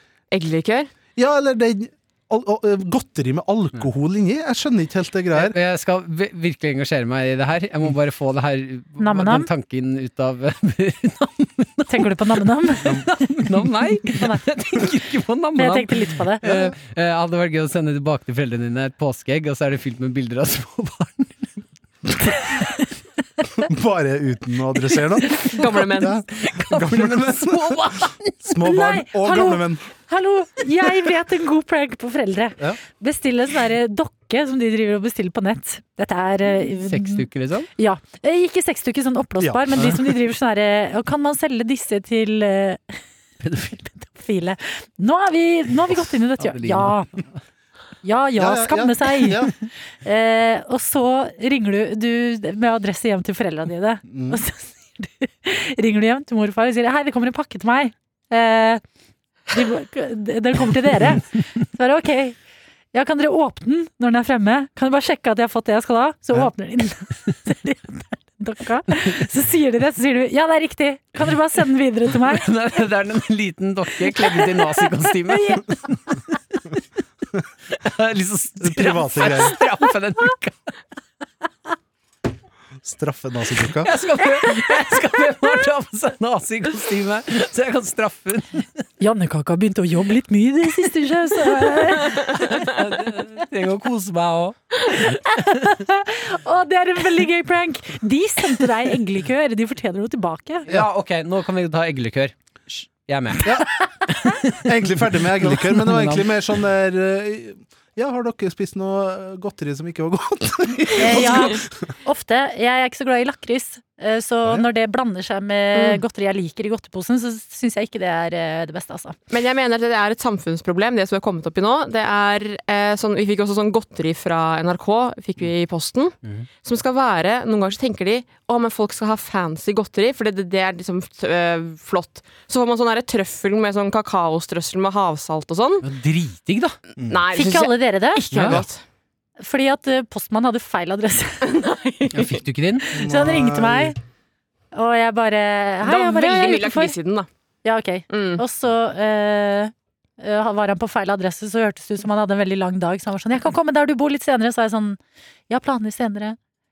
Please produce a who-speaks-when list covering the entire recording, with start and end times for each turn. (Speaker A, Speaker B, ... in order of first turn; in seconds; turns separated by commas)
Speaker A: 0.3-0.9, Speaker B: 1.2-5.6, Speaker C: 5.3-21.5, Speaker D: 9.0-9.5, Speaker D: 11.9-13.1, Speaker D: 14.1-14.4, Speaker D: 15.6-16.4, Speaker B: 16.4-16.7, Speaker B: 23.6-29.9, Speaker A: 25.4-26.2, Speaker C: 26.3-28.5, Speaker D: 28.6-43.0, Speaker C: 36.9-37.7, Speaker B: 39.4-40.0, Speaker C: 43.4-43.8, Speaker D: 43.7-47.1, Speaker C: 46.4-47.2, Speaker D: 48.0-49.5, Speaker B: 48.4-49.5, Speaker D: 50.0-58.8, Speaker B: 54.1-54.4, Speaker D: 59.5-62.4, Speaker D: 62.9-72.5, Speaker C: 72.2-76.7, Speaker D: 74.2-74.7, Speaker D: 75.3-75.6, Speaker C: 77.7-80.5, Speaker B: 78.6-79.6, Speaker B: 82.8-83.9, Speaker C: 83.8-88.7, Speaker D: 89.0-92.4, Speaker C: 92.1-95.2, Speaker D: 95.0-100.7, Speaker C: 100.7-106.3, Speaker B: 103.4-103.7, Speaker B: 104.6-111.6, Speaker D: 111.0-119.2, Speaker A: 111.1-111.5, Speaker A: 115.8-116.0, Speaker A: 119.3-135.9, Speaker C: 135.8-136.8, Speaker A: 137.1-138.8, Speaker D: 137.3-138.2, Speaker C: 138.3-138.6, Speaker D: 139.4-141.6, Speaker A: 141.4-142.4, Speaker C: 142.1-142.9, Speaker D: 142.8-144.0, Speaker B: 142.9-143.9, Speaker D: 144.7-146.9, Speaker A: 145.8-147.3, Speaker D: 147.6-156.4, Speaker A: 148.1-148.4